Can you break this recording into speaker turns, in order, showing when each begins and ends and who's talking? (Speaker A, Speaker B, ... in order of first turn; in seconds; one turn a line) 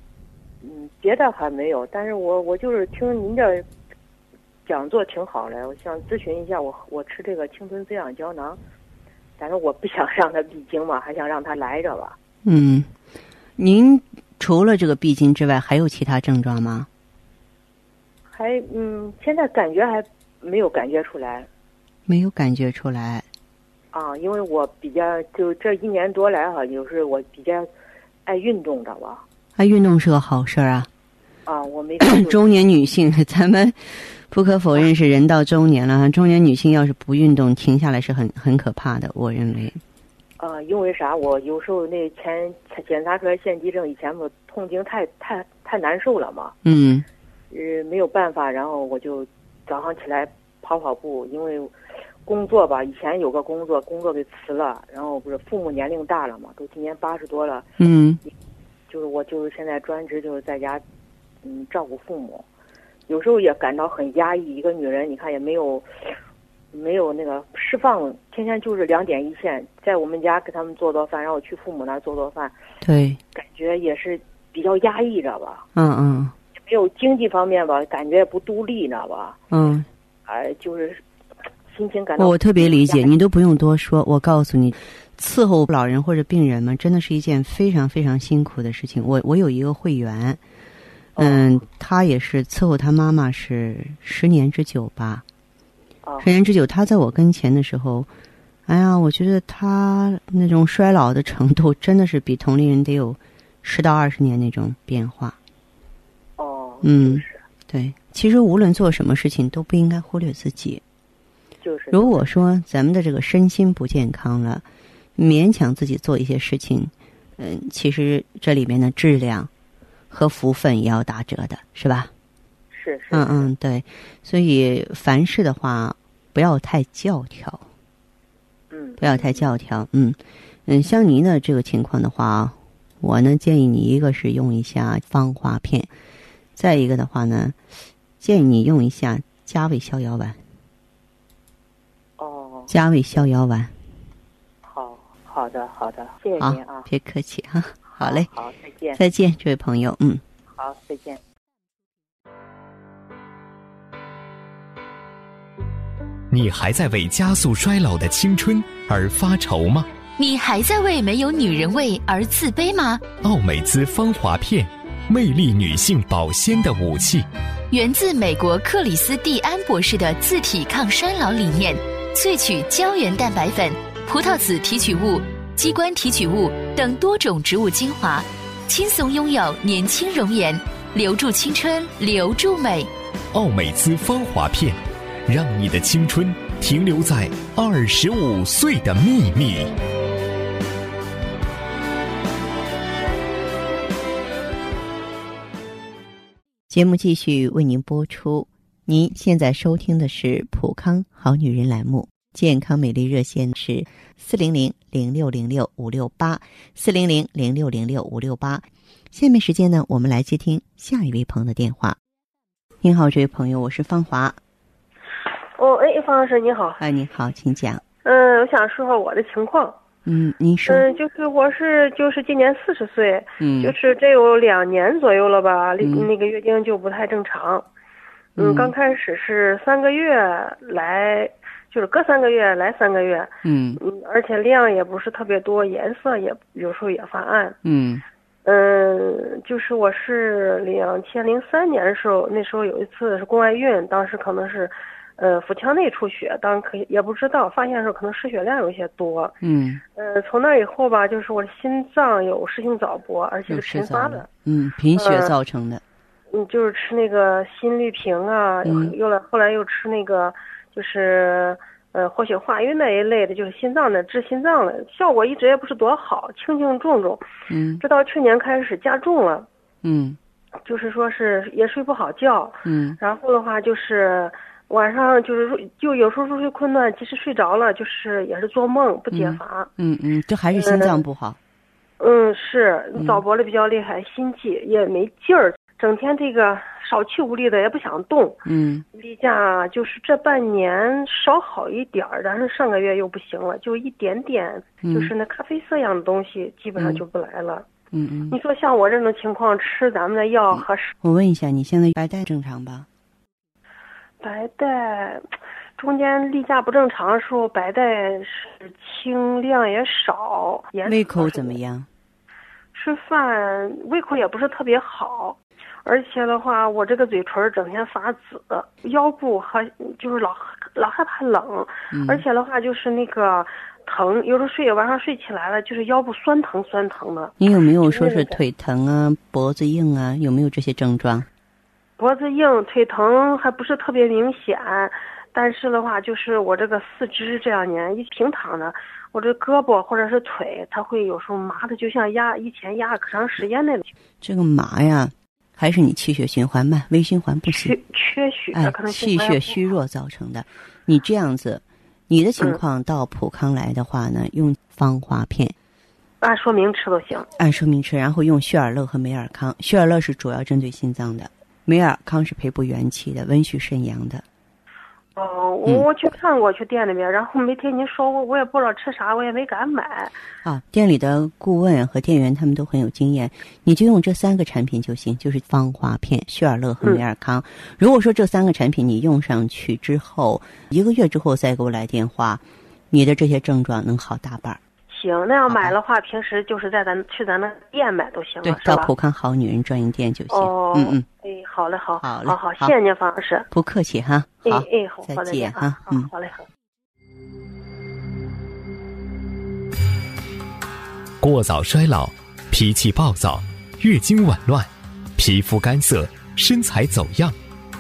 Speaker A: 0.6-3.7
Speaker A: 4.7-8.6
Speaker A: 9.4-12.2
Speaker B: 12.4-12.9
Speaker B: 13.6-16.9
Speaker A: 18.3-21.5
Speaker B: 22.1-23.3
Speaker A: 23.9-27.7
Speaker A: 28.2-29.2
Speaker B: 29.6-30.9
Speaker A: 31.5-32.4
Speaker B: 32.0-39.8
Speaker A: 40.4-46.5
Speaker B: 46.6-47.0
Speaker A: 47.5-51.7
Speaker A: 52.3-57.7
Speaker B: 57.8-58.2
Speaker A: 58.9-60.8
Speaker A: 61.4-62.5
Speaker A: 63.1-66.1
Speaker A: 66.7-72.5
Speaker B: 72.8-73.2
Speaker A: 73.3-75.7
Speaker B: 75.8-76.3
Speaker A: 76.6-79.4
Speaker B: 79.5-79.9
Speaker A: 80.3-81.0
Speaker A: 81.7-83.1
Speaker B: 82.2-90.4
Speaker A: 91.2-91.5
Speaker B: 91.2-95.2
Speaker A: 96.0-96.3
Speaker B: 96.2-98.1
Speaker B: 98.7-105.4
Speaker A: 106.4-107.4
Speaker B: 106.8-110.8
Speaker A: 111.6-112.3
Speaker B: 111.9-114.7
Speaker B: 115.2-119.5
Speaker B: 120.1-122.1
Speaker A: 122.7-123.5
Speaker B: 123.1-127.7
Speaker A: 128.7-129.5
Speaker B: 129.0-135.9
Speaker B: 136.6-137.6
Speaker B: 138.2-140.4
Speaker A: 142.2-143.2
Speaker B: 142.7-143.8
Speaker A: 144.6-146.9
Speaker B: 146.4-148.3
Speaker A: 147.9-149.0
Speaker B: 149.0-150.2
Speaker A: 150.5-151.2
Speaker C: 156.3-159.9
Speaker D: 160.2-163.1
Speaker C: 163.2-167.3
Speaker D: 167.7-182.9
Speaker C: 183.3-189.7
Speaker B: 196.7-212.0
Speaker B: 212.8-214.4
Speaker E: 215.5-216.8
Speaker B: 216.8-217.8
Speaker E: 218.0-219.8
Speaker B: 220.1-220.9
Speaker E: 220.6-227.7
Speaker B: 223.4-223.8
Speaker B: 225.8-226.1
Speaker B: 228.4-228.7
Speaker E: 228.4-237.6
Speaker B: 233.5-233.8
Speaker B: 237.7-238.0
Speaker E: 238.4-249.4
Speaker B: 249.4-249.8
Speaker E: 249.9-254.3
Speaker B: 253.5-255.8
Speaker E: 254.9-255.4
Speaker E: 256.3-269.5
Speaker B: 258.6-259.0
Speaker B: 267.5-267.8
Speaker B: 269.8-270.2
Speaker E: 270.6-279.8
Speaker B: 272.7-273.0
Speaker B: 279.1-281.4
Speaker E: 280.5-281.0
Speaker E: 282.0-288.4
Speaker B: 288.5-288.8
Speaker E: 288.9-297.7
Speaker B: 294.8-295.1
Speaker B: 296.8-297.0
Speaker B: 297.9-298.4
Speaker E: 298.3-300.9
Speaker B: 300.5-302.9
Speaker E: 304.2-311.6
Speaker B: 310.9-311.9
Speaker E: 312.7-328.4
Speaker B: 321.9-322.2
Speaker B: 327.4-331.3
Speaker E: 332.0-343.9
Speaker B: 344.2-347.7
Speaker E: 347.5-349.7
Speaker B: 348.5-355.5
Speaker E: 356.2-357.4
Speaker B: 357.4-364.2
Speaker E: 365.1-370.2
Speaker B: 370.4-384.6
Speaker E: 384.9-388.9
Speaker B: 385.5-385.8
Speaker B: 388.4-391.1
Speaker E: 390.3-393.5
Speaker B: 392.0-392.7
Speaker B: 393.5-396.1
Speaker E: 394.4-396.5
Speaker C: 401.2-407.4